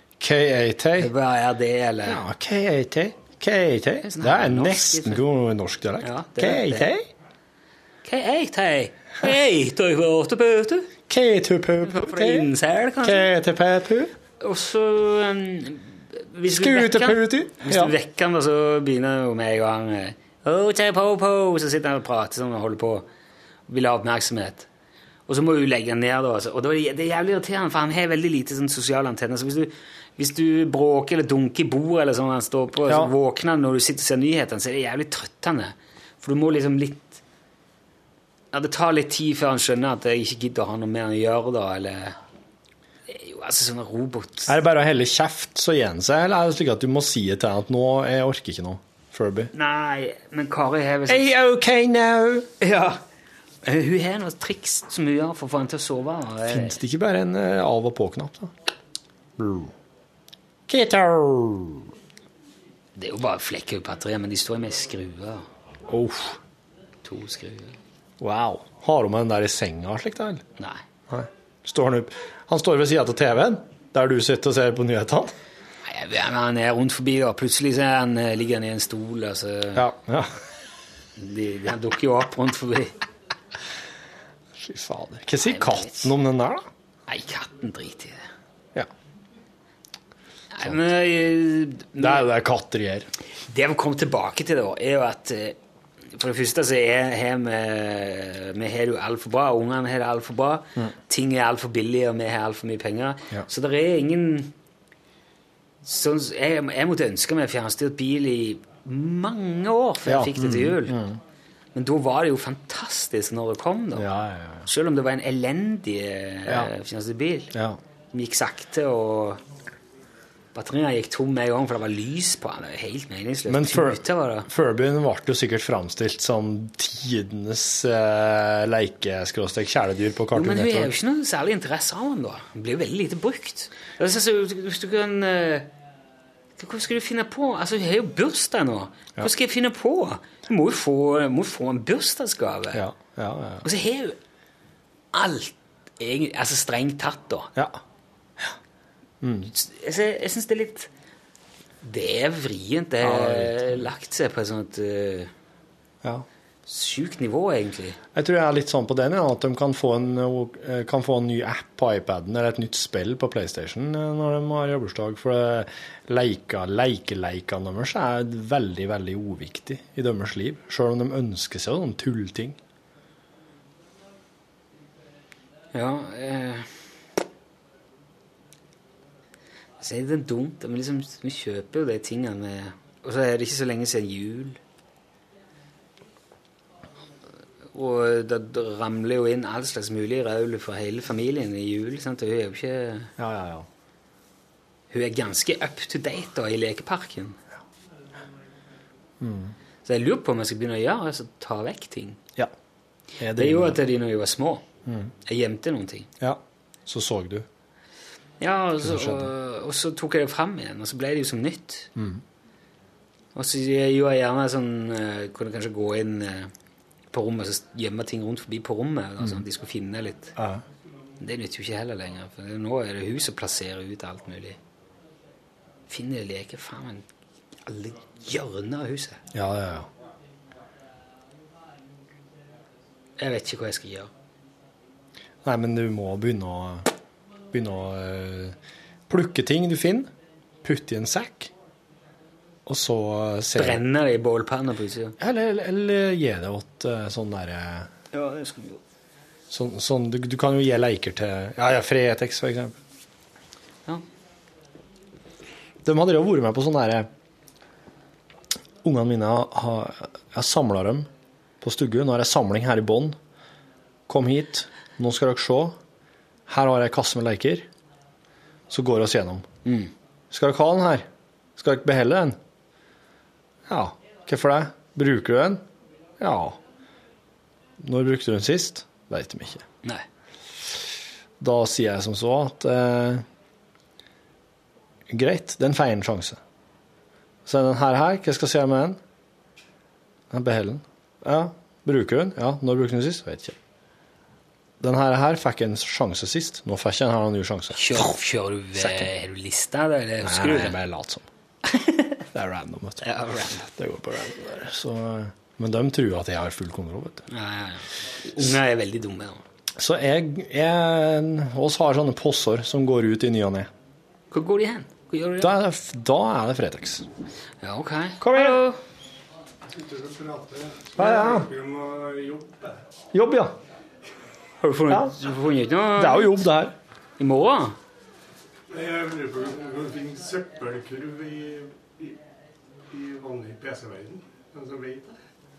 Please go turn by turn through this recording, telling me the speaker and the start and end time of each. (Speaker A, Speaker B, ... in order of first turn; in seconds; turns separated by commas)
Speaker A: 0.2-1.1, Speaker B: 1.0-2.2, Speaker A: 2.0-7.1, Speaker B: 4.0-5.2, Speaker B: 6.0-6.9, Speaker B: 8.0-10.9, Speaker A: 11.1-12.5, Speaker B: 11.8-13.3, Speaker A: 13.0-14.1, Speaker B: 14.4-23.1, Speaker A: 16.5-17.9, Speaker B: 23.7-24.7, Speaker B: 25.3-37.2, Speaker A: 32.9-33.1, Speaker B: 38.5-42.1, Speaker B: 43.1-44.5, Speaker A: 44.5-49.5, Speaker B: 49.5-51.3, Speaker A: 51.1-52.5, Speaker B: 52.6-53.0, Speaker B: 53.6-56.8, Speaker A: 56.5-58.5, Speaker A: 59.4-59.7, Speaker A: 60.7-61.9, Speaker B: 63.0-65.5, Speaker A: 65.9-66.4, Speaker B: 67.0-67.7, Speaker A: 68.2-70.4, Speaker A: 71.1-75.3, Speaker B: 75.8-79.9, Speaker A: 79.7-80.3, Speaker B: 81.2-83.0, Speaker A: 84.6-86.7, Speaker B: 85.4-86.1, Speaker B: 87.1-88.3, Speaker B: 90.5-92.2, Speaker A: 92.0-93.1, Speaker B: 93.5-95.5, Speaker B: 96.1-104.5, Speaker B: 105.8-111.0, Speaker A: 110.0-111.2, Speaker B: 111.7-114.1, Speaker A: 114.0-114.7, Speaker B: 114.7-117.5, Speaker B: 118.1-119.4, Speaker B: 120.5-124.5, Speaker A: 123.5-130.9, Speaker B: 130.3-135.7, Speaker B: 136.6-142.8, Speaker A: 142.7-143.7, Speaker B: 143.6-144.2, Speaker B: 145.1-147.5, Speaker A: 149.2-149.5, Speaker B: 149.5-150.9, Speaker B: 151.8-155.3, Speaker A: 153.0-153.8, Speaker B: 156.7-158.0, Speaker A: 158.1-172.6, Speaker B: 175.7-176.7, Speaker B: 179.8-184.6, Speaker B: 187.7-193.1, Speaker A: 193.2-193.7, Speaker B: 194.9-197.4, Speaker A: 199.2-199.5, Speaker B: 199.8-202.2, Speaker A: 203.2-203.8, Speaker B: 203.4-204.6, Speaker A: 204.9-205.1, Speaker B: 205.2-206.1, Speaker A: 206.2-207.4, Speaker B: 208.4-211.9, Speaker A: 208.8-209.3, Speaker A: 211.9-212.2, Speaker B: 213.3-216.5, Speaker B: 217.1-220.3, Speaker A: 220.4-220.6, Speaker B: 221.2-224.6, Speaker B: 225.9-227.1, Speaker B: 227.7-229.2, Speaker A: 229.3-229.9, Speaker B: 233.2-234.1, Speaker A: 235.4-236.9, Speaker A: 237.5-238.6, Speaker A: 239.1-240.1, Speaker A: 240.6-241.5, Speaker A: 242.7-243.8, Speaker B: 243.6-245.2, Speaker A: 245.2-247.9, Speaker B: 248.1-248.8, Speaker A: 249.5-252.8, Speaker A: 255.8-257.1, Speaker A: 258.8-261.1, Speaker A: 261.6-263.1, Speaker A: 264.1-265.8, Speaker A: 266.5-267.7, Speaker A: 268.7-269.4, Speaker B: 269.6-269.9, Speaker A: 270.3-272.4, Speaker A: 273.7-275.6, Speaker A: 276.2-276.6, Speaker A: 277.8-279.6, Speaker A: 281.4-283.2, Speaker A: 285.1-286.4, Speaker A: 287.4-289.0, Speaker A: 290.3-293.6, Speaker A: 294.8-298.1, Speaker B: 297.7-300.8, Speaker A: 298.8-299.1, Speaker A: 300.2-301.3, Speaker B: 301.7-302.2, Speaker A: 302.3-303.1, Speaker B: 303.0-303.7, Speaker A: 303.7-307.3, Speaker B: 307.3-309.4, Speaker A: 309.8-313.7, Speaker B: 314.3-315.5, Speaker A: 315.4-317.1, Speaker B: 317.6-318.8, Speaker A: 318.2-318.6, Speaker C: 319.6-322.8, Speaker A: 321.0-321.5, Speaker A: 323.1-323.5, Speaker B: 324.6-326.4, Speaker A: 324.9-325.1, Speaker A: 325.9-326.7, Speaker B: 327.2-327.8, Speaker C: 328.7-332.2, Speaker C: 332.9-335.2